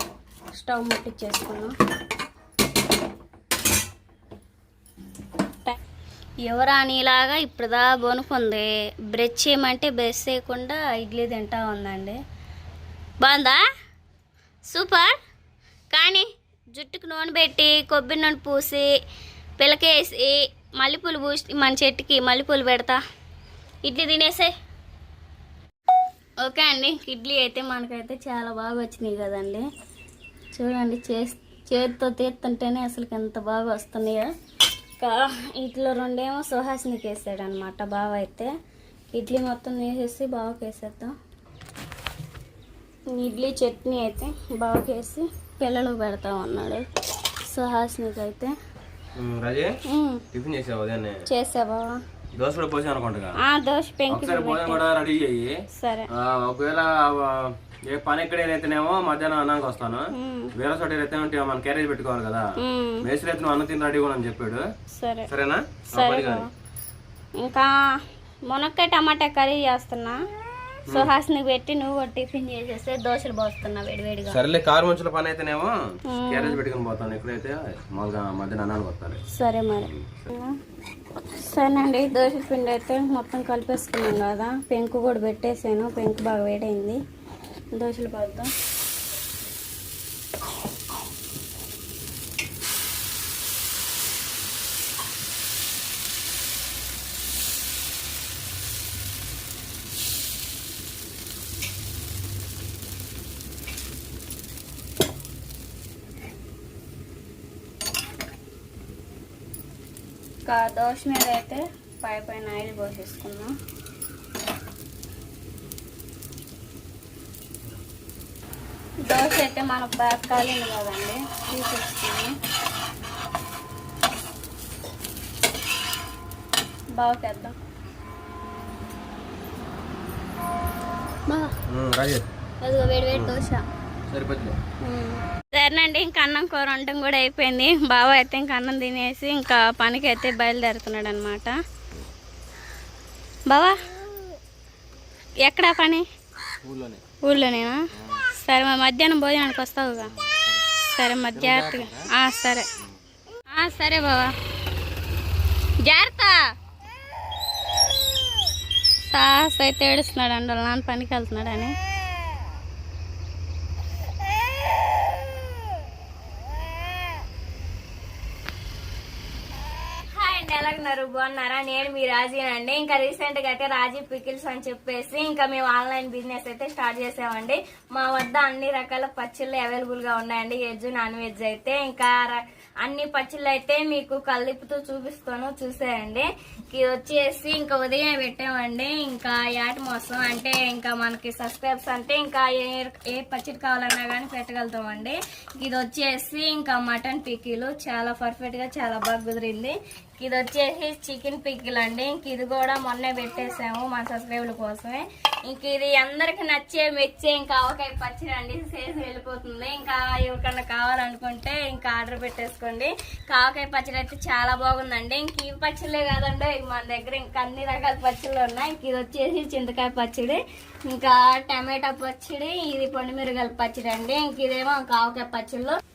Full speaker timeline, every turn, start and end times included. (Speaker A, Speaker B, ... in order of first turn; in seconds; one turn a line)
Speaker A: 0.5-1.7
Speaker A: 6.4-12.2
Speaker A: 13.2-13.6
Speaker A: 14.7-15.2
Speaker A: 15.9-18.9
Speaker A: 19.6-23.0
Speaker A: 23.8-24.5
Speaker A: 26.4-29.6
Speaker A: 30.5-34.3
Speaker A: 35.0-38.5
Speaker A: 39.1-41.1
Speaker A: 43.1-46.8
Speaker A: 47.4-48.5
Speaker B: 49.1-49.7
Speaker A: 49.9-50.2
Speaker B: 50.3-51.2
Speaker A: 51.3-52.0
Speaker B: 52.3-53.4
Speaker A: 53.4-54.8
Speaker B: 54.1-55.5
Speaker A: 55.8-56.1
Speaker B: 56.1-60.0
Speaker A: 60.1-60.5
Speaker B: 60.6-62.4
Speaker A: 62.6-63.0
Speaker B: 63.0-64.6
Speaker A: 65.0-65.3
Speaker B: 65.3-66.5
Speaker A: 65.9-66.5
Speaker A: 67.4-67.7
Speaker A: 68.5-70.2
Speaker A: 70.9-74.4
Speaker B: 74.3-75.7
Speaker A: 76.1-76.6
Speaker B: 76.3-79.2
Speaker A: 79.3-80.5
Speaker A: 81.4-87.0
Speaker A: 87.7-88.5
Speaker A: 110.5-113.5
Speaker A: 119.1-122.3
Speaker A: 127.0-127.5
Speaker A: 131.3-131.5
Speaker B: 131.7-132.2
Speaker A: 132.6-133.6
Speaker B: 134.1-134.6
Speaker A: 134.8-141.5
Speaker A: 143.5-143.8
Speaker A: 145.4-146.1
Speaker B: 146.6-147.0
Speaker A: 147.2-147.8
Speaker A: 148.3-150.1
Speaker B: 150.3-150.6
Speaker A: 150.9-152.7
Speaker B: 151.3-152.1
Speaker A: 153.5-154.3
Speaker A: 155.8-156.5
Speaker A: 159.1-161.7
Speaker A: 170.1-225.8